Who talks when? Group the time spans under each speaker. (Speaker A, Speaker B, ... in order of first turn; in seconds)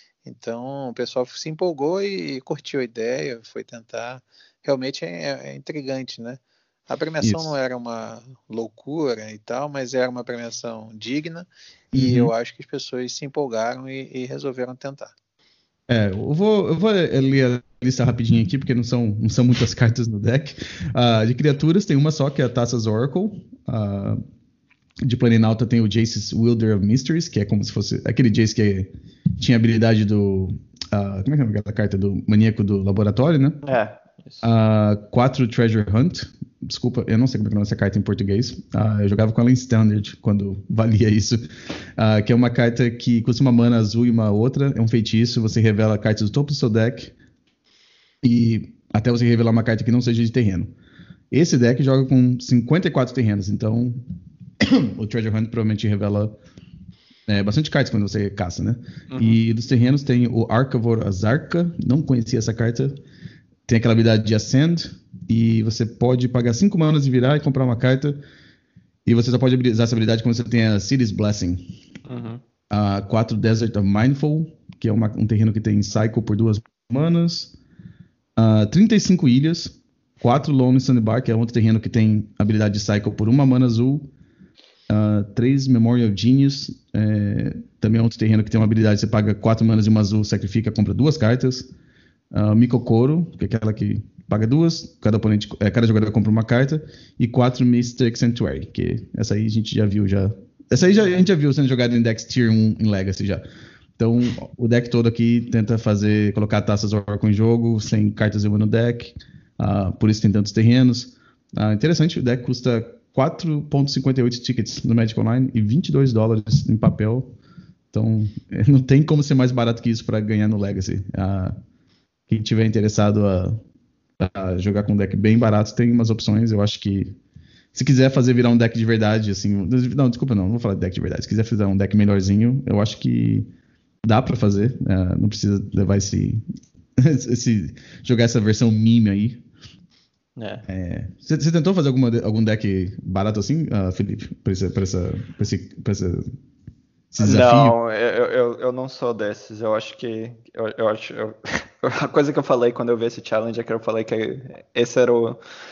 Speaker A: 0.2-15.1
Speaker B: 7.2-7.5, 11.9-12.3, 15.9-24.2, 25.0-33.6, 34.4-47.1, 48.2-50.7, 51.3-54.0, 54.6-56.3, 57.3-63.0, 63.7-68.2, 69.0-71.7, 72.7-77.5, 78.4-84.1, 84.9-91.7, 92.3-103.4, 104.0-117.3, 117.9-121.5, 122.3-123.6, 124.2-127.1, 127.7-133.5, 134.0-136.4, 137.0-139.4, 140.7-146.3, 147.1-147.8
Speaker C: 33.6-34.5, 59.1-59.4, 72.0-72.4, 140.4-140.6, 147.2-155.4